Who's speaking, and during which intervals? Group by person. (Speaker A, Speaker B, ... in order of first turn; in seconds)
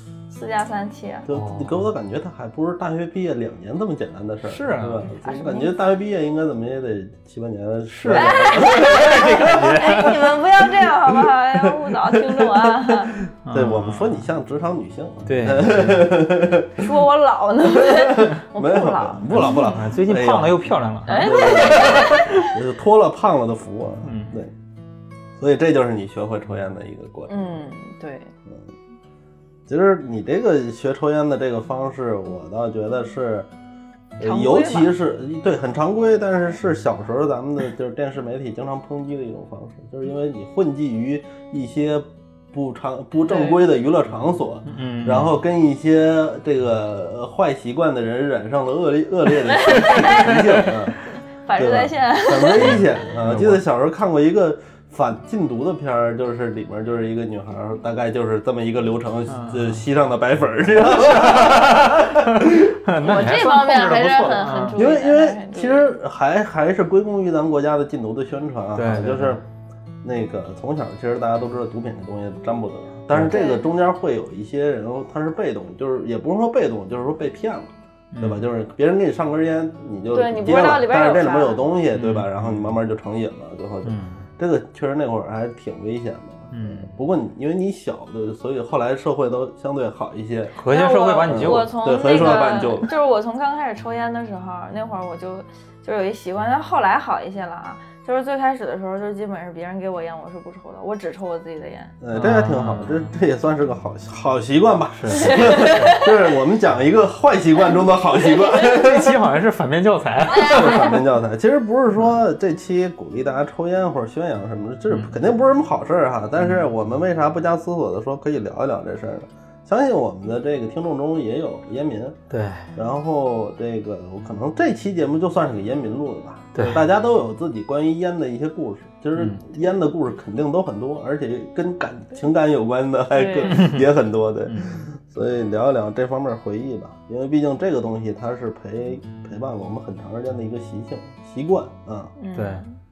Speaker A: 0.3-1.3, 5.2-5.7, 8.1-13.2, 16.7-19.8, 21.1-22.4, 27.3-28.3, 34.2-34.9, 43.3-43.6, 49.5-50.6, 51.5-52.9, 63.0-65.9, 73.2-73.7, 80.1-81.7, 90.7-101.9, 105.2-106.1, 110.3-111.0, 133.1-133.6, 142.2-142.8
Speaker B: 1.3-9.8, 10.8-16.9, 17.7-24.5, 25.4-27.5, 29.7-33.5, 34.2-51.0, 51.5-62.8, 64.7-69.4, 70.0-90.5, 91.2-92.9, 102.0-109.2, 110.4-122.2, 122.7-142.1
Speaker C: 1.3-1.8, 4.4-5.1, 7.9-10.3, 13.4-14.2, 15.3-16.2, 19.3-22.5, 24.0-24.4, 44.7-45.3, 52.5-53.6, 59.3-59.8, 60.8-65.0, 68.8-69.4, 78.1-78.5, 81.9-82.7, 83.8-84.3, 86.5-86.9, 90.6-91.8, 102.1-103.1, 105.0-106.0, 108.6-111.0, 122.3-122.7, 126.5-126.8, 133.5-133.8, 134.5-134.8, 142.3-142.6